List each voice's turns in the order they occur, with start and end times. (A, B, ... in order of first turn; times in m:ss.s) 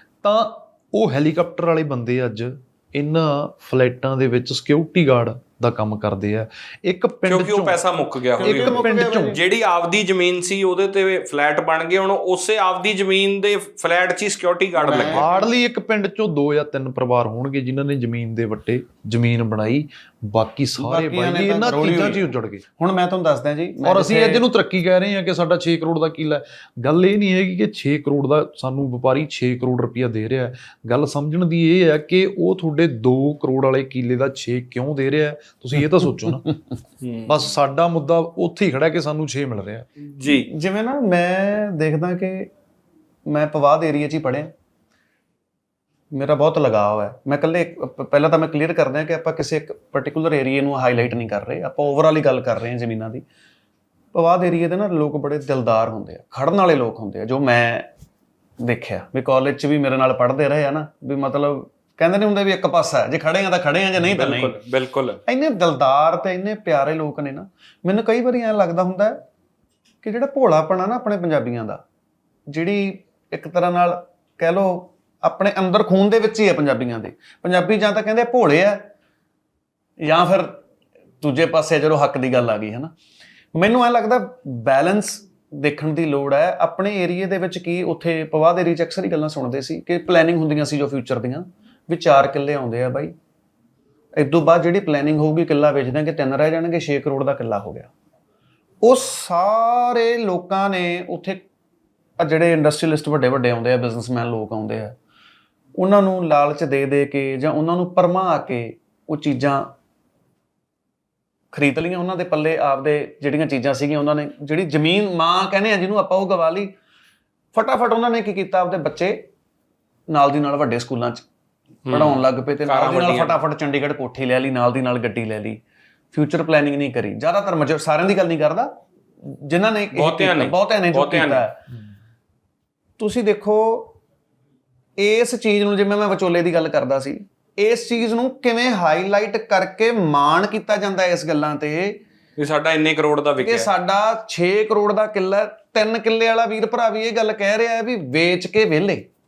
0:00.2-0:07.8 A
0:07.2-0:15.2 B
0:08.4-0:09.4 C
0:08.4-0:09.3 A
0:14.8-0:15.4 C
0:15.1-0:22.6 A
0:20.8-0:24.4 C
0:23.8-0:36.5 A
0:37.0-0:37.4 B
0:37.3-0:39.9 A
0:40.2-0:40.5 B
0:40.3-0:42.5 C
0:43.3-0:44.5 C
0:46.1-0:53.2 C
0:54.1-0:57.9 C
0:58.6-1:04.6 C
1:04.0-1:05.2 B
1:05.3-1:09.2 C
1:10.0-1:11.8 C
1:12.5-1:18.8 C
1:20.0-1:20.6 C
1:21.2-1:22.9 C
1:23.5-1:33.1 C
1:34.2-1:37.9 C
1:38.8-1:41.4 C
1:42.2-1:44.9 C
1:45.8-1:49.7 C
1:51.5-1:56.7 C
1:57.5-1:59.2 C
2:00.1-2:01.2 C
2:01.9-2:03.4 B
2:01.9-2:05.6 C
2:06.1-2:11.6 C
2:09.9-2:11.4 B
2:13.0-2:13.9 C
2:15.0-2:22.0 C
2:22.4-2:23.7 B
2:23.4-2:29.0 C